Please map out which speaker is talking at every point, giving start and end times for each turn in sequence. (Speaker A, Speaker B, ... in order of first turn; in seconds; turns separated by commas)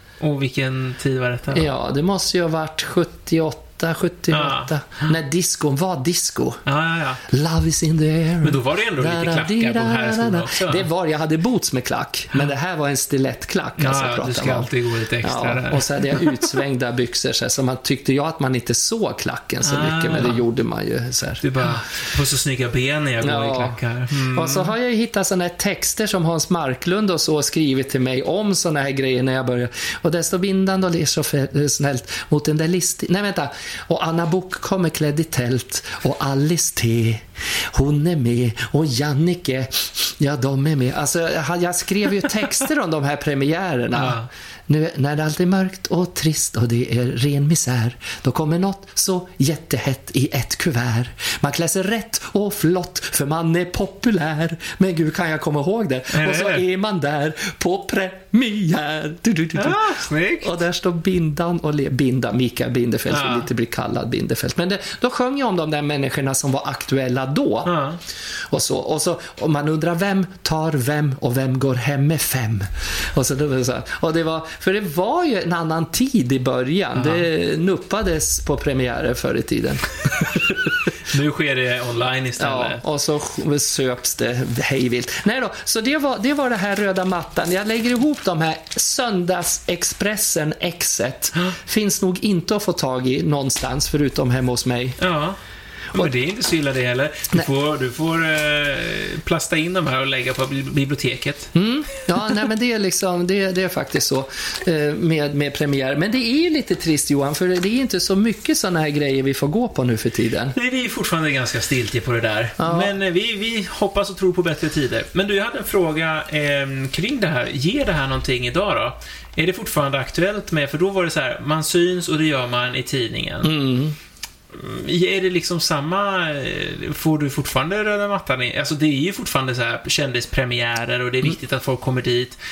Speaker A: 0.2-1.7, Speaker B: 1.5-6.6, Speaker A: 4.3-4.7, Speaker A: 6.7-7.2, Speaker B: 7.3-14.7, Speaker A: 8.4-10.8, Speaker A: 13.8-16.4, Speaker B: 15.2-21.4, Speaker A: 19.6-20.4, Speaker A: 21.4-24.7, Speaker B: 23.2-67.7, Speaker A: 43.9-44.3, Speaker A: 56.1-56.6, Speaker A: 59.5-60.5, Speaker A: 63.1-63.5, Speaker A: 67.6-68.0, Speaker B: 68.5-80.7, Speaker A: 76.9-77.2, Speaker A: 81.0-82.8, Speaker B: 82.4-95.0, Speaker A: 95.0-95.4, Speaker A: 95.9-101.5, Speaker B: 101.5-110.5, Speaker A: 110.5-123.5, Speaker B: 112.6-112.9, Speaker B: 123.4-124.0, Speaker A: 124.5-132.4